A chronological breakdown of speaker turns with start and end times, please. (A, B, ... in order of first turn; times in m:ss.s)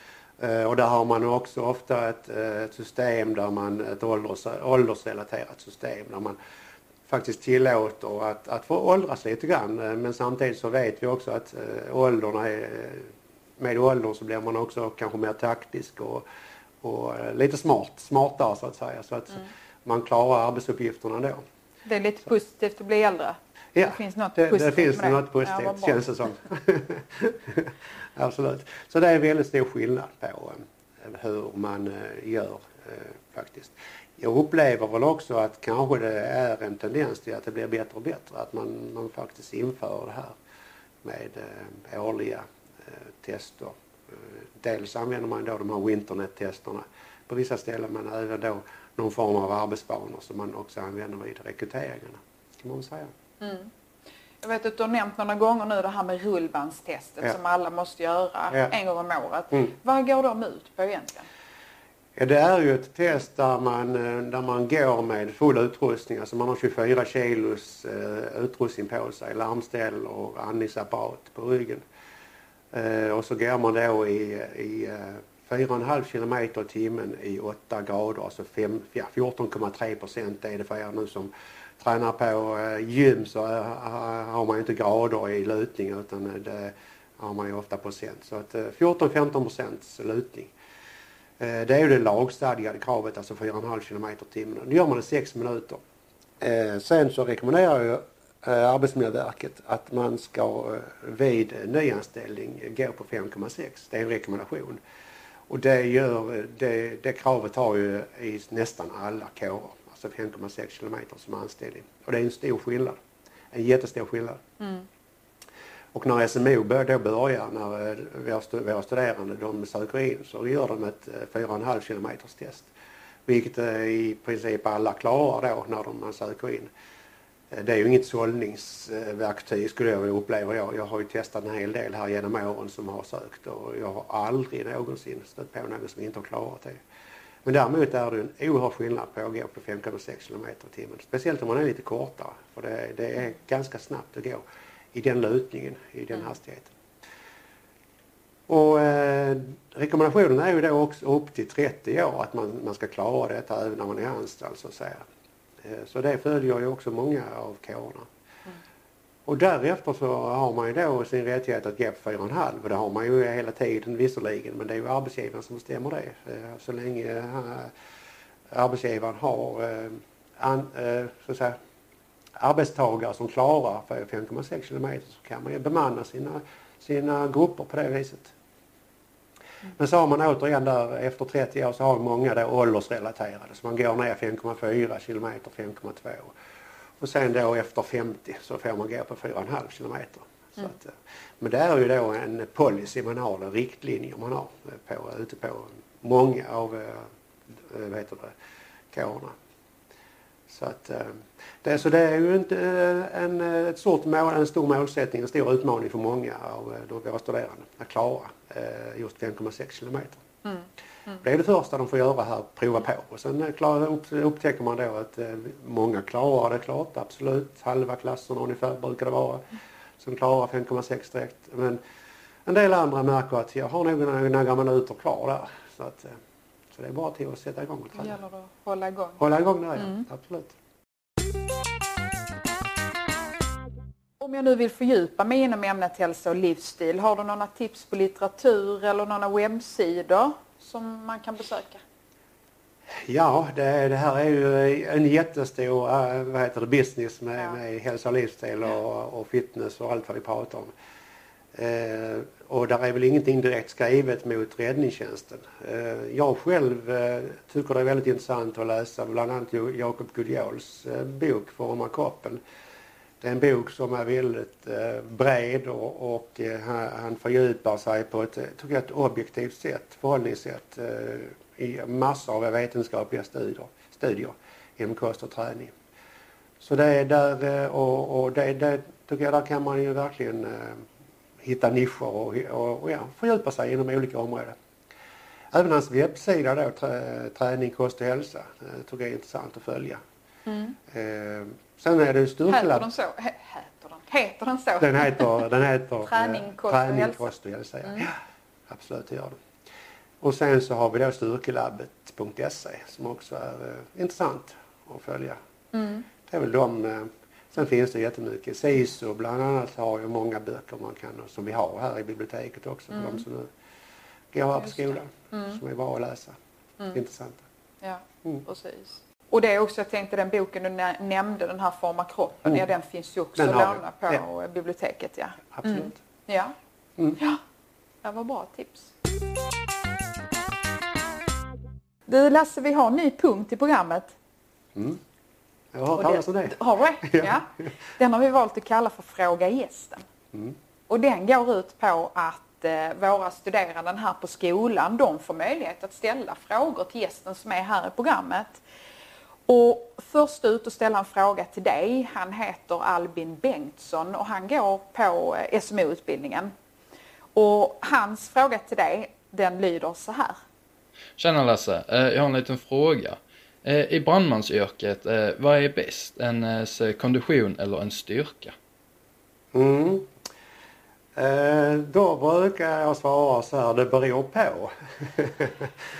0:00.4-0:06.4 A
0:07.1-0:16.2 A
0:16.8-0:21.4 A
0:21.9-0:26.0 B
0:23.8-0:40.4 A
0:41.0-0:53.1 A
0:53.4-0:53.7 B
0:54.4-1:01.3 B
1:02.2-1:11.8 A
1:12.7-1:30.5 A
1:31.4-1:35.8 A
1:36.4-1:44.8 A
1:45.5-1:53.0 A
1:53.5-1:54.4 A
1:54.6-1:54.9 B
1:55.9-2:02.7 A
2:03.3-2:06.7 A
2:07.5-2:16.8 A
2:17.4-2:26.7 A
2:28.5-2:35.0 A
2:35.6-2:38.1 A
2:39.3-2:47.7 A
2:48.5-2:51.6 A
2:52.4-2:58.3 A
2:59.8-3:06.4 A
3:07.0-3:18.4 A
3:18.9-3:19.4 A
3:20.5-3:30.2 A
3:30.4-3:31.2 B
3:31.2-3:39.5 A
3:40.0-3:41.8 A
3:42.5-3:46.2 A
3:46.7-3:48.2 A
3:48.0-3:49.2 B
3:49.2-3:50.6 A
3:49.8-3:50.0 B
3:54.2-4:01.8 B
4:03.1-4:10.7 A
4:11.5-4:22.4 A
4:23.2-4:35.7 A
4:36.6-4:40.8 A
4:41.4-4:44.6 A
4:45.5-4:50.0 A
4:50.5-4:50.8 B
4:50.9-4:52.9 A
4:52.5-4:55.3 B
4:54.8-4:59.4 A
4:56.0-4:57.3 B
5:00.2-5:05.4 A
5:05.7-5:06.1 B
5:06.3-5:13.5 A
5:12.9-5:13.2 B
5:14.3-5:16.4 A
5:14.6-5:15.6 B
5:16.9-5:17.4 A
5:17.8-5:26.5 B
5:23.4-5:24.2 A
5:25.5-5:25.9 A
5:28.0-5:28.9 B
5:32.1-5:34.1 B
5:34.8-5:35.0 A
5:35.7-5:37.4 A
5:36.0-5:40.1 B
5:40.9-5:48.6 B
5:49.5-5:56.5 B
5:57.4-6:00.4 B
6:01.2-6:08.5 C
6:09.5-6:10.1 A
6:11.2-6:15.7 A